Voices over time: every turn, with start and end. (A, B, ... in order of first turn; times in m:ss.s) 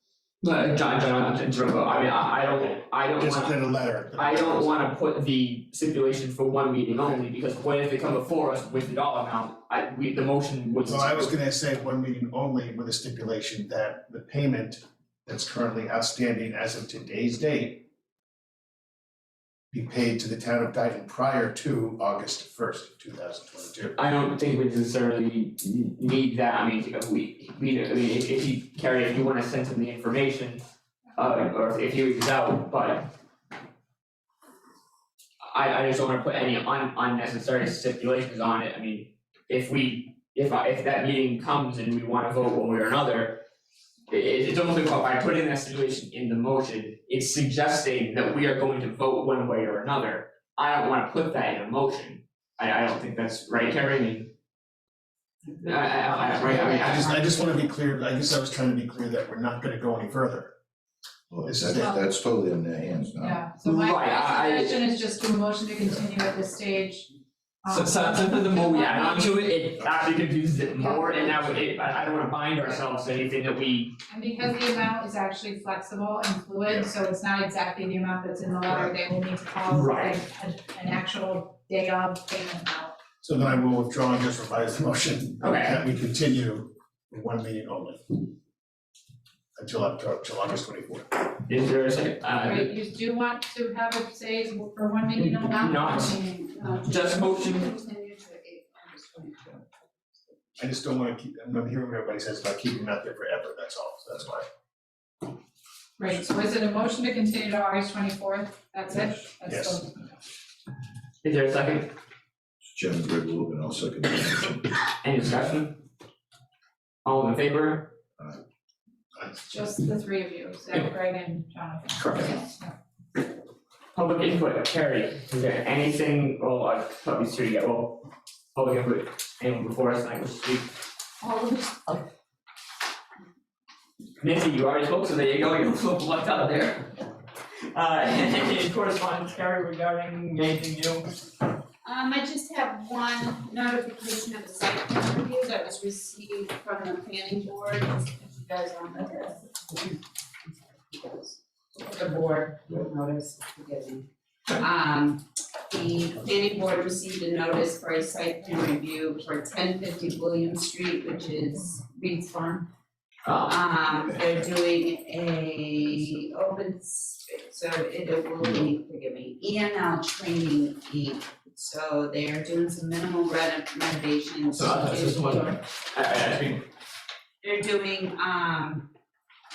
0:00.4-0:03.6 A
0:03.4-0:04.8 B
0:04.1-0:11.4 A
0:10.9-0:17.7 B
0:19.7-0:24.0 B
0:24.0-0:30.6 A
0:31.2-0:33.1 A
0:35.5-0:43.4 A
0:44.1-0:54.3 A
0:55.5-0:57.9 C
0:55.6-0:57.1 A
0:56.9-1:00.5 B
1:01.3-1:03.4 D
1:01.5-1:01.9 B
1:01.8-1:02.1 E
1:03.2-1:07.1 E
1:03.6-1:04.8 A
1:07.6-1:09.5 E
1:07.7-1:13.9 A
1:10.8-1:11.7 E
1:14.1-1:23.0 E
1:19.7-1:20.2 A
1:23.2-1:28.0 B
1:23.5-1:24.0 C
1:25.4-1:25.9 A
1:29.6-1:31.1 B
1:31.4-1:32.7 A
1:32.4-1:36.3 E
1:35.2-1:36.2 A
1:36.2-1:39.6 C
1:36.9-1:37.7 A
1:40.6-1:41.3 C
1:40.8-1:44.4 B
1:42.1-1:42.5 C
1:43.4-1:44.2 C
1:46.0-1:50.1 E
1:51.2-1:51.9 A
1:52.6-1:54.8 D
1:55.0-1:55.8 A
1:57.0-1:57.9 A
1:59.5-2:02.7 E
2:02.0-2:02.4 A
2:04.0-2:10.7 A
2:11.2-2:12.0 A
2:14.2-2:16.9 A
2:17.7-2:21.1 A
2:21.8-2:42.7 C
2:43.2-2:43.6 A
2:43.5-2:55.6 C
2:48.4-2:48.7 A
2:54.5-2:56.6 A
2:57.4-2:58.9 C